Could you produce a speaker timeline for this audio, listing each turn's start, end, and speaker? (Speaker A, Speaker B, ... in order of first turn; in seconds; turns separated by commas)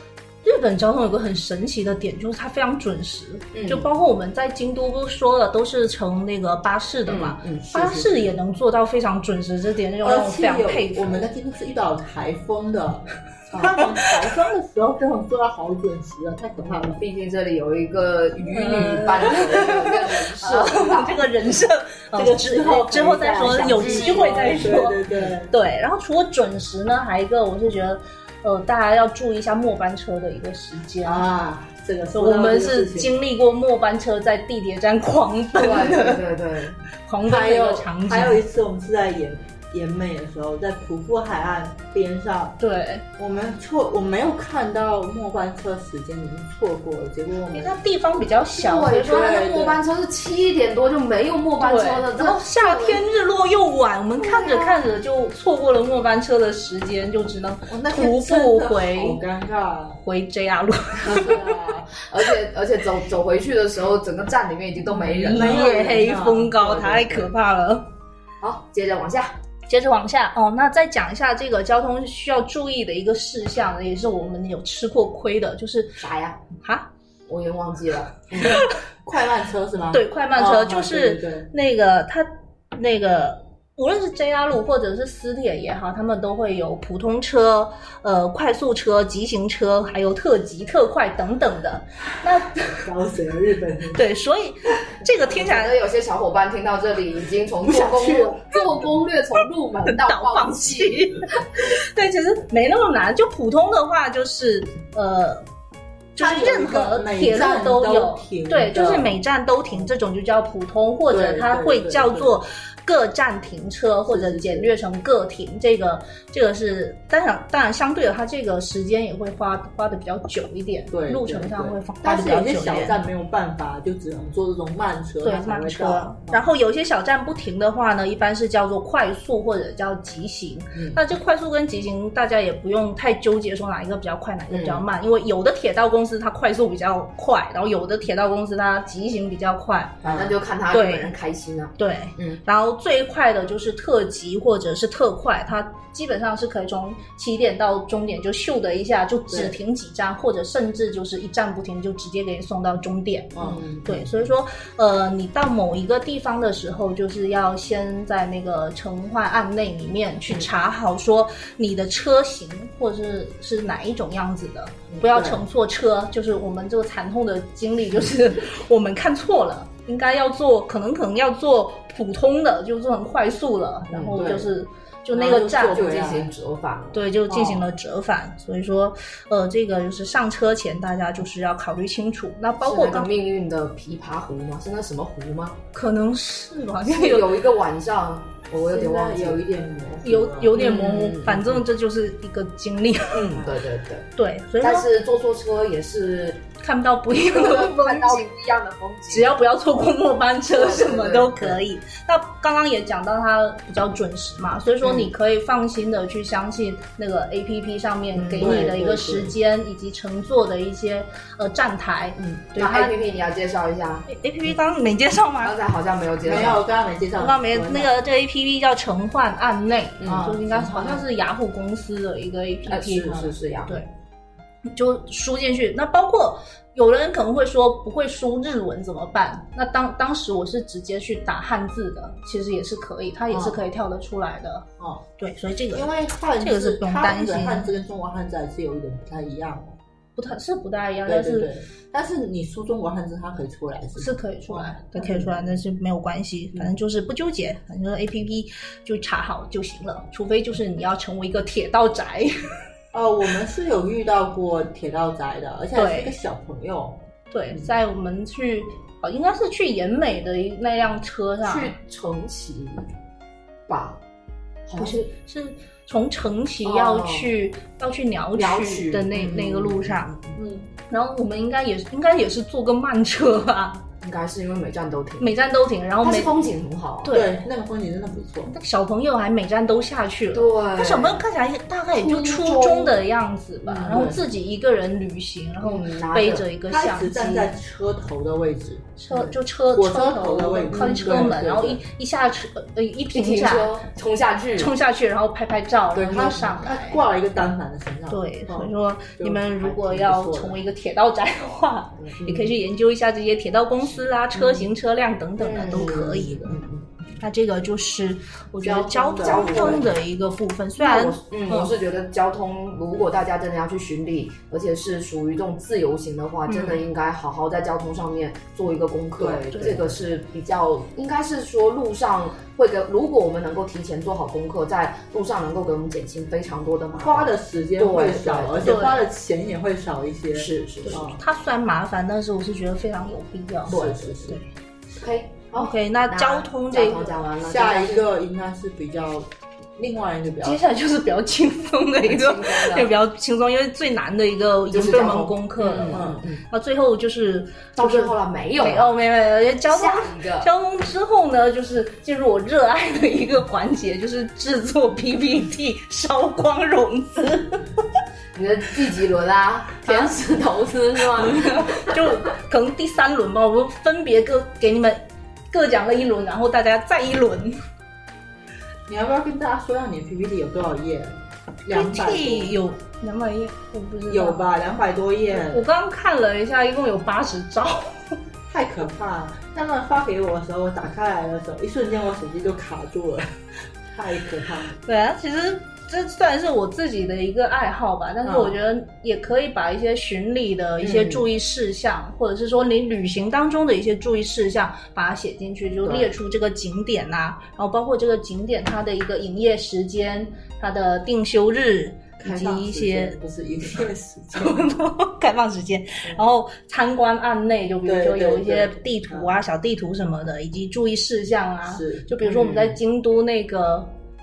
Speaker A: 0.4-11.3, Speaker B: 3.5-3.9, Speaker B: 7.1-8.0, Speaker C: 10.0-17.0, Speaker B: 13.5-14.3, Speaker B: 16.6-21.3, Speaker A: 18.5-31.2, Speaker C: 22.1-25.5, Speaker B: 23.4-24.7, Speaker C: 31.0-33.1, Speaker A: 32.1-36.2, Speaker B: 35.6-36.8, Speaker A: 37.0-38.4, Speaker C: 37.2-42.6, Speaker A: 42.6-43.0, Speaker C: 43.2-47.8, Speaker A: 47.5-49.7, Speaker B: 48.6-53.0, Speaker C: 49.1-49.8, Speaker A: 51.6-59.2, Speaker B: 54.2-54.8, Speaker C: 57.7-60.0, Speaker A: 60.0-61.4, Speaker B: 61.0-67.3, Speaker C: 65.0-66.5, Speaker A: 65.2-67.9, Speaker B: 68.4-69.4, Speaker A: 69.7-76.0, Speaker B: 76.0-76.4, Speaker A: 76.6-76.9, Speaker B: 77.3-78.6, Speaker C: 78.4-81.5, Speaker A: 78.4-78.7, Speaker A: 79.9-92.8, Speaker C: 92.8-94.0, Speaker A: 93.9-95.7, Speaker B: 95.2-101.1, Speaker C: 97.6-98.6, Speaker A: 99.9-105.5, Speaker A: 106.2-123.0, Speaker C: 106.2-109.2, Speaker C: 111.1-112.3, Speaker C: 114.1-114.7, Speaker C: 120.9-126.5, Speaker A: 125.2-141.1, Speaker C: 130.8-131.0, Speaker B: 134.5-134.8, Speaker B: 140.0-142.4, Speaker A: 141.8-175.8, Speaker C: 149.3-149.6, Speaker C: 153.3-154.0, Speaker B: 153.4-153.9, Speaker C: 165.1-165.4, Speaker C: 173.9-174.5, Speaker C: 175.1-176.3, Speaker B: 175.7-177.7, Speaker A: 176.9-183.1, Speaker B: 182.6-185.6, Speaker A: 185.7-187.3, Speaker B: 186.9-189.8, Speaker C: 188.6-190.6, Speaker A: 190.0-193.4, Speaker B: 190.5-191.6, Speaker B: 193.1-194.1, Speaker A: 194.2-194.9, Speaker B: 194.6-196.5, Speaker A: 196.6-198.2, Speaker B: 197.2-199.3, Speaker A: 199.1-212.9, Speaker B: 200.5-201.6, Speaker B: 204.8-205.1, Speaker B: 208.1-208.7, Speaker C: 208.4-209.3, Speaker B: 212.2-214.1, Speaker A: 214.1-215.6, Speaker B: 215.4-216.7, Speaker C: 216.2-217.8, Speaker A: 217.2-223.9, Speaker B: 220.0-221.0, Speaker C: 220.1-221.0, Speaker B: 222.7-223.8, Speaker A: 224.7-234.7, Speaker B: 233.3-233.6, Speaker C: 234.8-235.0, Speaker A: 235.2-237.7, Speaker C: 235.7-239.8, Speaker A: 240.2-241.5, Speaker C: 241.1-245.6, Speaker A: 244.0-252.3, Speaker C: 252.9-257.0, Speaker A: 255.8-256.1, Speaker A: 257.3-261.7, Speaker B: 261.4-262.9, Speaker B: 263.7-264.0, Speaker B: 264.7-265.1, Speaker A: 264.8-270.3, Speaker B: 266.6-267.3, Speaker B: 268.4-270.0, Speaker C: 270.4-270.7, Speaker A: 270.9-273.8, Speaker B: 274.0-275.3, Speaker A: 275.2-276.3, Speaker B: 276.0-277.2, Speaker A: 277.1-277.4, Speaker C: 277.1-278.5, Speaker A: 278.5-287.5, Speaker B: 280.3-281.2, Speaker B: 281.9-283.0, Speaker B: 283.6-284.2, Speaker C: 283.9-284.2, Speaker B: 285.6-286.5, Speaker C: 286.7-289.0, Speaker A: 289.0-293.8, Speaker C: 289.7-291.8, Speaker B: 290.7-291.2, Speaker B: 293.1-294.7, Speaker A: 294.6-297.0, Speaker C: 295.9-300.6, Speaker A: 298.1-306.6, Speaker B: 302.1-302.4, Speaker B: 305.4-306.8, Speaker C: 305.8-306.6, Speaker A: 307.2-311.7, Speaker B: 308.6-309.9, Speaker C: 308.7-309.9, Speaker B: 310.8-328.9, Speaker C: 319.2-319.9, Speaker A: 319.5-319.8, Speaker C: 327.0-331.2, Speaker A: 328.6-329.0, Speaker B: 330.3-331.0, Speaker A: 330.9-334.4, Speaker C: 333.7-334.4, Speaker B: 333.7-334.4, Speaker B: 334.9-338.1, Speaker A: 335.6-337.1, Speaker C: 337.4-340.6, Speaker A: 340.4-357.8, Speaker B: 342.0-342.9, Speaker B: 344.7-346.4, Speaker C: 345.9-346.2, Speaker B: 347.8-348.9, Speaker B: 349.7-350.5, Speaker B: 358.3-362.1, Speaker A: 361.2-367.6, Speaker C: 368.9-372.6, Speaker A: 371.7-374.5, Speaker C: 374.1-375.7, Speaker A: 375.3-378.2, Speaker C: 378.5-383.4, Speaker C: 383.9-384.8, Speaker A: 384.8-403.2, Speaker C: 388.2-388.6, Speaker B: 390.8-391.3, Speaker B: 395.9-396.1, Speaker C: 402.2-404.8, Speaker A: 404.3-413.9, Speaker C: 407.9-409.3, Speaker C: 411.7-412.7